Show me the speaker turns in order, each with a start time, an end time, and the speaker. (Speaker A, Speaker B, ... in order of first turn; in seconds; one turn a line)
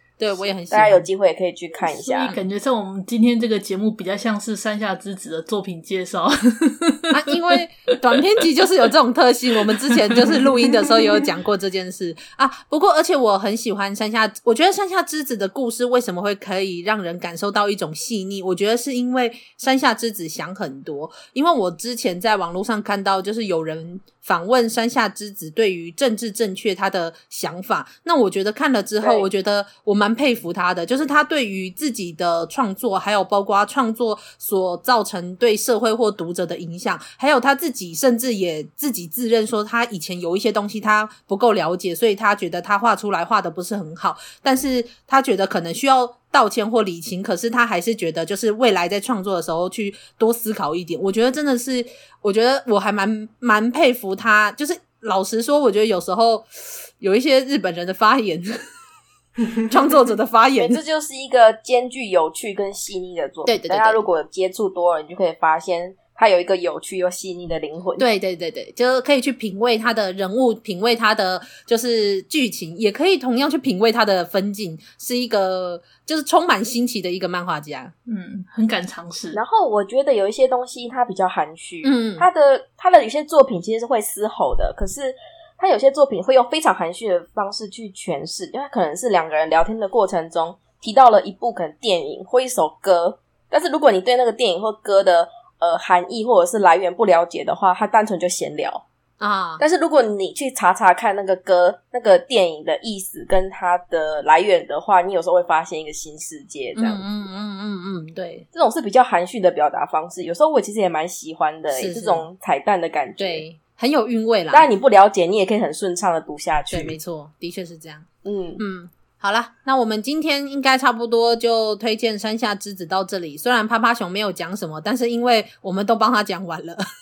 Speaker A: 0.2-1.1
Speaker B: 0.7-2.4
Speaker C: 1.9-7.0
Speaker A: 7.1-58.6
Speaker B: 29.0-29.3
Speaker A: 59.7-60.8
Speaker B: 60.6-68.0
Speaker A: 63.4-64.0
Speaker A: 68.0-77.9
Speaker C: 78.1-79.4
Speaker B: 79.3-98.8
Speaker A: 81.8-82.3
Speaker A: 99.2-99.6
Speaker B: 99.6-107.0
Speaker A: 106.8-108.5
Speaker B: 108.5-113.4
Speaker A: 111.7-112.3
Speaker A: 113.2-114.7
Speaker B: 114.5-117.0
Speaker A: 116.7-118.0
Speaker B: 118.2-118.6
Speaker A: 118.6-126.8